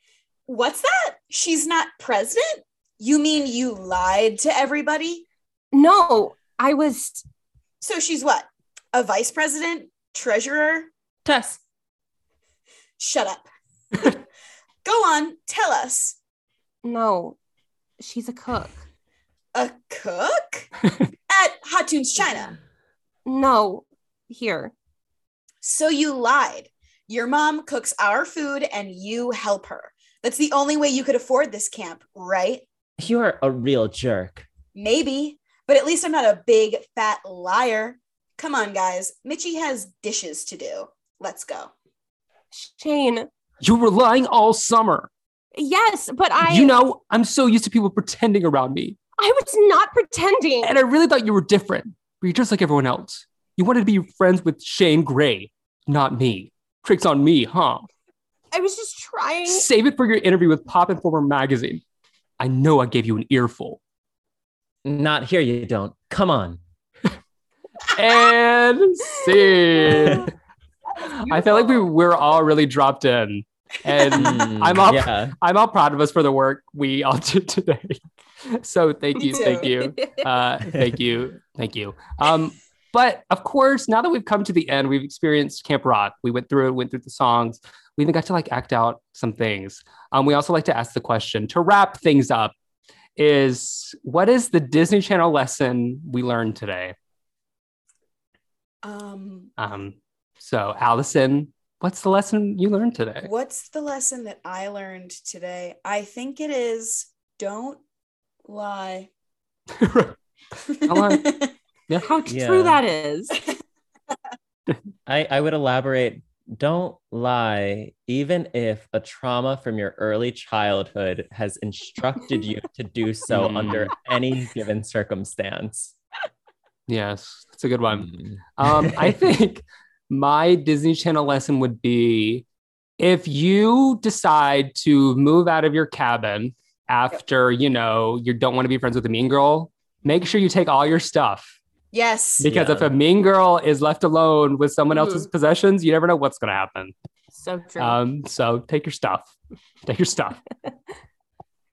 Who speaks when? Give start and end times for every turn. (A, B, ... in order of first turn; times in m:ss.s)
0:00.5-0:05.2 A
0:05.7-0:07.2 B
0:07.8-0:10.9 A
0:11.2-0:11.6 C
0:13.0-0:13.4 A
0:14.8-0:16.2 A
0:16.8-0:17.4 B
0:18.0-0:18.8 B
0:19.5-0:20.7 A
0:21.3-0:22.5 A
0:23.2-0:24.7 B
0:25.6-0:32.6 A
0:33.0-0:34.5 C
0:34.7-0:41.7 A
0:42.5-0:43.3 B
0:43.6-0:45.1 D
0:45.5-0:46.7 B
0:46.4-0:49.0 D
0:49.2-0:50.7 B
0:50.6-0:57.9 D
0:58.5-0:59.6 B
0:59.4-1:01.8 D
1:02.4-1:03.8 D
1:04.8-1:06.6 C
1:07.9-1:10.3 D
1:11.2-1:32.5 D
1:14.1-1:15.3 C
1:19.2-1:20.2 B
1:19.3-1:19.7 A
1:33.2-1:36.9 D
1:38.8-1:39.5 A
1:39.6-1:43.3 D
1:43.2-1:47.8 A
1:48.4-1:49.1 A
1:49.8-1:50.2 D
1:50.6-1:51.5 A
1:50.8-1:51.3 D
1:52.0-1:53.4 B
1:52.3-1:52.8 C
1:55.0-2:05.9 C
2:03.3-2:03.9 D
2:06.9-2:12.4 D
2:07.9-2:09.1 C
2:13.0-2:21.6 D
2:21.9-2:22.5 A
2:22.4-2:26.9 D
2:22.4-2:22.9 C
2:27.3-2:28.0 B
2:27.8-2:30.4 D